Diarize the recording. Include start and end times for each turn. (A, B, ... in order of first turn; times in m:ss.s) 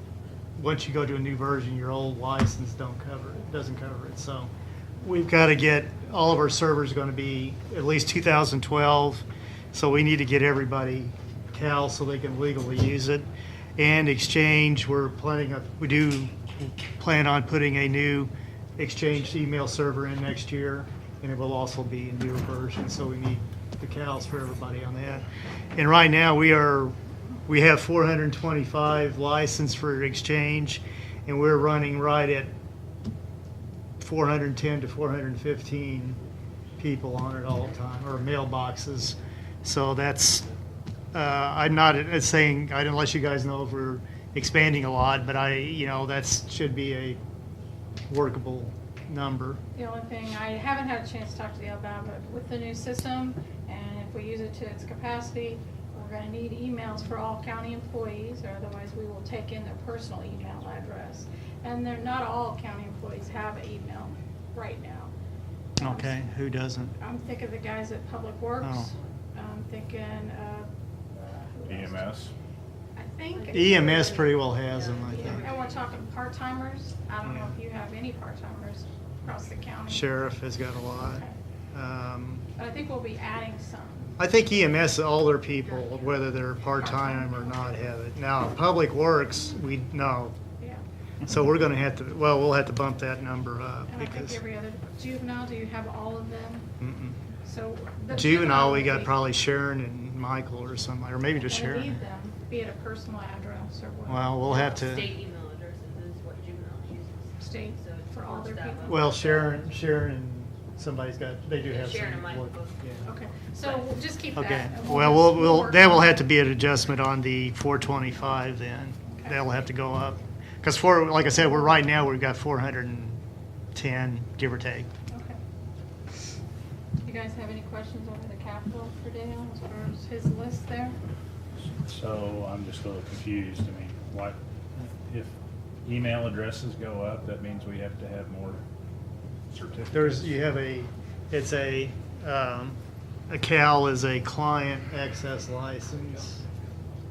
0:00.6-0:26.9 A
0:27.5-0:32.5 A
0:34.0-0:36.2 A
0:36.8-0:40.4 A
0:41.1-0:47.2 A
0:48.1-0:49.6 A
0:49.7-1:05.1 B
1:05.8-1:06.2 B
1:05.8-1:06.9 A
1:07.0-1:12.0 B
1:08.6-1:08.9 A
1:11.6-1:12.3 C
1:13.0-1:20.1 B
1:13.3-1:16.0 D
1:13.5-1:15.4 A
1:17.2-1:17.5 A
1:19.9-1:22.4 A
1:21.1-1:21.4 B
1:22.6-1:24.1 B
1:24.2-1:30.4 A
1:25.6-1:26.3 D
1:26.7-1:27.8 B
1:31.2-1:34.4 A
1:33.9-1:36.7 B
1:36.8-1:37.2 A
1:37.4-1:39.2 B
1:38.1-1:42.0 A
1:41.4-1:44.8 B
1:44.1-1:45.1 A
1:44.5-1:49.7 D
1:47.4-1:49.1 B
1:48.8-1:53.1 A
1:51.6-1:53.9 D
1:53.1-1:56.2 B
1:54.3-2:03.2 A
2:03.7-2:04.9 A
2:05.1-2:05.4 B
2:07.0-2:11.0 B
2:11.8-2:14.4 C
2:15.0-2:15.3 C
2:15.8-2:18.6 C
2:19.5-2:20.4 C
2:19.9-2:26.4 A